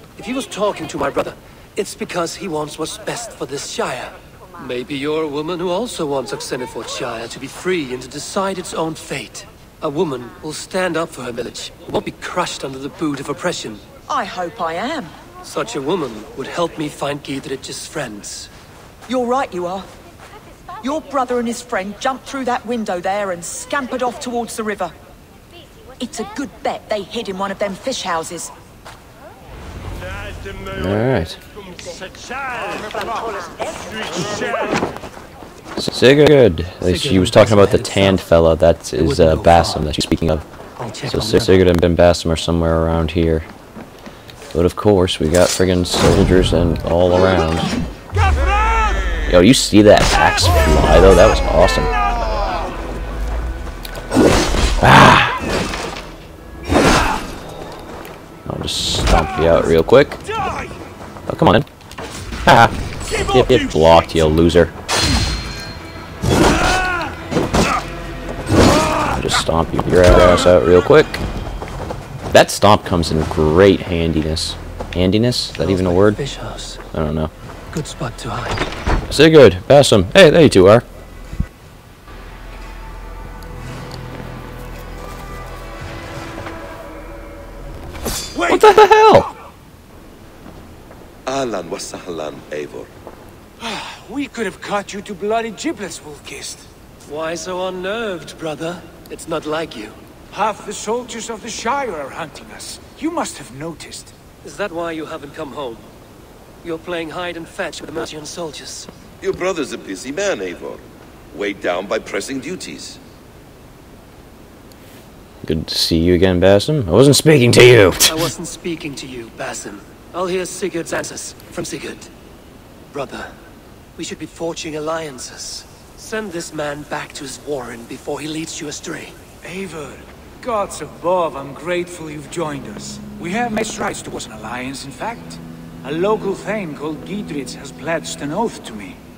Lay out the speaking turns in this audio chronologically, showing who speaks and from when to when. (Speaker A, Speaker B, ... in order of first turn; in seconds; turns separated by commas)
Speaker A: 0.1-13.8, Speaker B: 14.1-15.1, Speaker A: 15.4-18.5, Speaker B: 19.1-19.9, Speaker B: 20.8-24.9, Speaker B: 26.0-28.5, Speaker C: 30.7-31.4, Speaker C: 35.8-40.4, Speaker A: 36.8-38.2, Speaker A: 39.0-39.9, Speaker A: 40.8-41.6, Speaker C: 41.1-43.5, Speaker C: 44.5-47.7, Speaker C: 49.3-51.9, Speaker C: 54.8-55.4, Speaker C: 58.5-60.2, Speaker C: 61.3-61.7, Speaker C: 62.4-64.7, Speaker C: 69.1-71.2, Speaker C: 72.3-76.2, Speaker A: 75.6-76.8, Speaker C: 76.9-77.3, Speaker A: 77.7-78.7, Speaker C: 79.1-80.8, Speaker C: 88.4-89.3, Speaker D: 91.2-92.9, Speaker E: 93.6-96.7, Speaker A: 97.0-100.0, Speaker E: 100.3-104.1, Speaker A: 104.4-105.9, Speaker A: 106.6-108.9, Speaker D: 109.2-113.0, Speaker C: 115.4-118.2, Speaker A: 118.0-122.1, Speaker A: 122.9-123.3, Speaker A: 124.0-129.2, Speaker E: 129.4-139.0